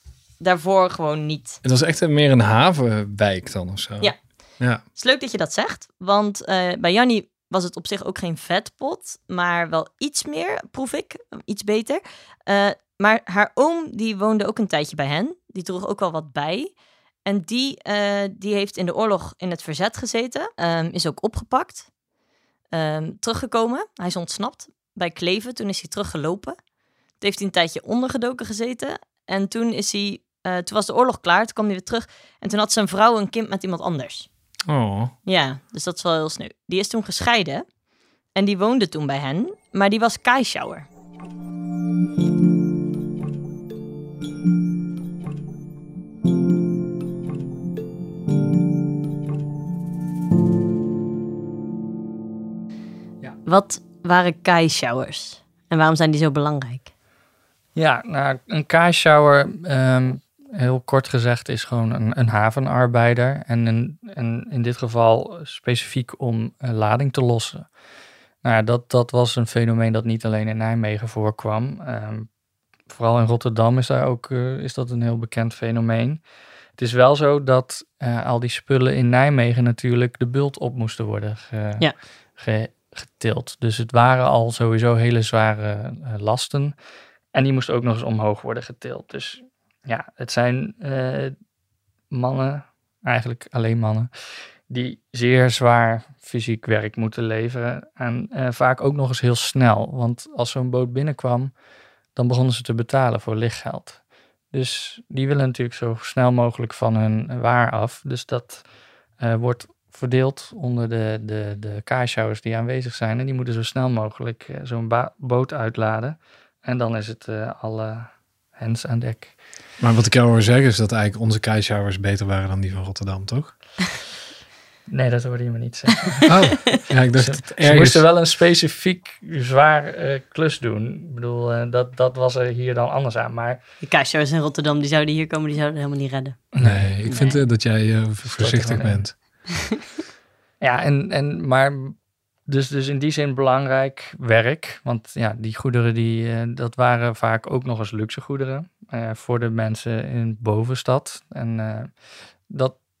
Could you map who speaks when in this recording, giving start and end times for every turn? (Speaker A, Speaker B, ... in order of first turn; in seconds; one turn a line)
Speaker A: 0.4-1.6
Speaker B: 1.6-4.8
Speaker A: 4.8-16.7
Speaker A: 17.2-21.9
Speaker A: 22.7-26.6
Speaker A: 27.2-34.3
Speaker B: 34.7-35.1
Speaker A: 35.2-37.6
Speaker A: 38.3-40.9
Speaker A: 53.5-56.9
Speaker C: 57.7-67.7
Speaker C: 68.4-72.3
Speaker C: 72.9-76.2
Speaker C: 76.8-86.8
Speaker C: 87.3-91.3
Speaker C: 92.1-101.5
Speaker C: 102.1-108.6
Speaker C: 109.2-119.4
Speaker B: 119.8-123.6
Speaker C: 124.9-133.6
Speaker B: 126.3-128.0
Speaker A: 133.8-136.5
Speaker C: 136.5-137.3
Speaker B: 136.6-139.4
Speaker A: 137.0-137.4
Speaker C: 138.2-139.2
Speaker C: 140.6-151.9
Speaker C: 152.5-152.8